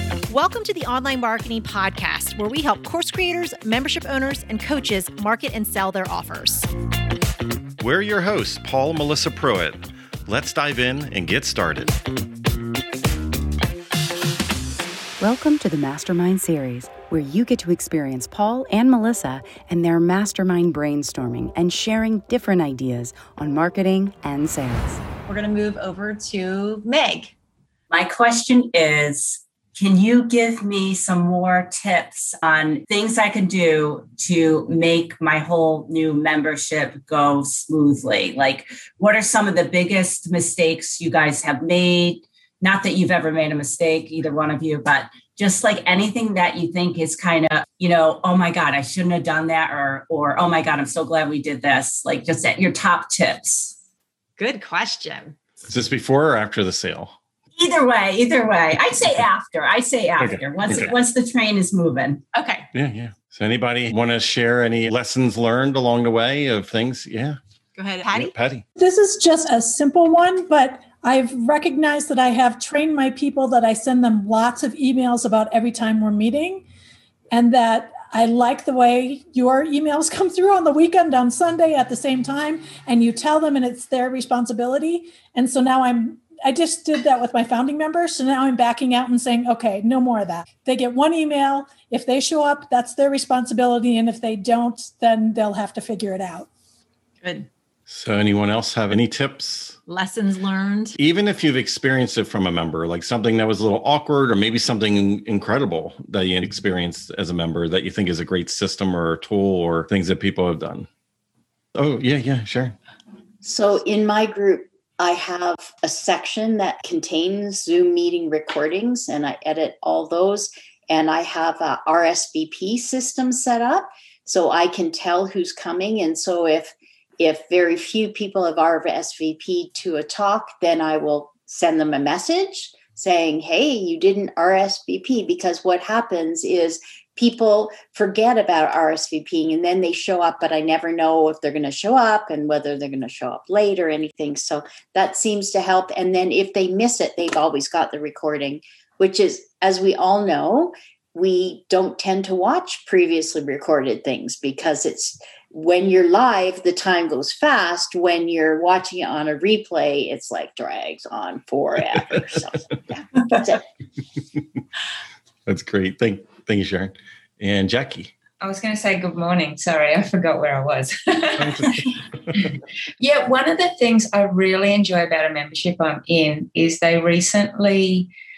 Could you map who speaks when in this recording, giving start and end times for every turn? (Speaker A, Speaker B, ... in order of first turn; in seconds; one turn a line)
Speaker A: 0.3-6.7
Speaker B: 7.8-12.0
Speaker C: 15.2-25.0
Speaker A: 25.3-27.3
Speaker D: 27.9-53.7
Speaker A: 54.4-55.4
Speaker B: 55.7-57.2
Speaker D: 57.6-62.2
Speaker B: 60.2-61.0
Speaker A: 62.3-62.7
Speaker B: 62.7-67.4
Speaker A: 67.8-68.3
Speaker B: 68.1-68.6
Speaker E: 68.8-76.7
Speaker E: 77.3-96.5
Speaker A: 97.2-97.5
Speaker B: 97.9-99.8
Speaker A: 99.9-101.0
Speaker B: 101.0-110.9
Speaker B: 111.8-112.8
Speaker F: 113.4-163.6
Speaker B: 165.5-168.1
Speaker G: 168.4-178.1
Speaker B: 171.4-171.7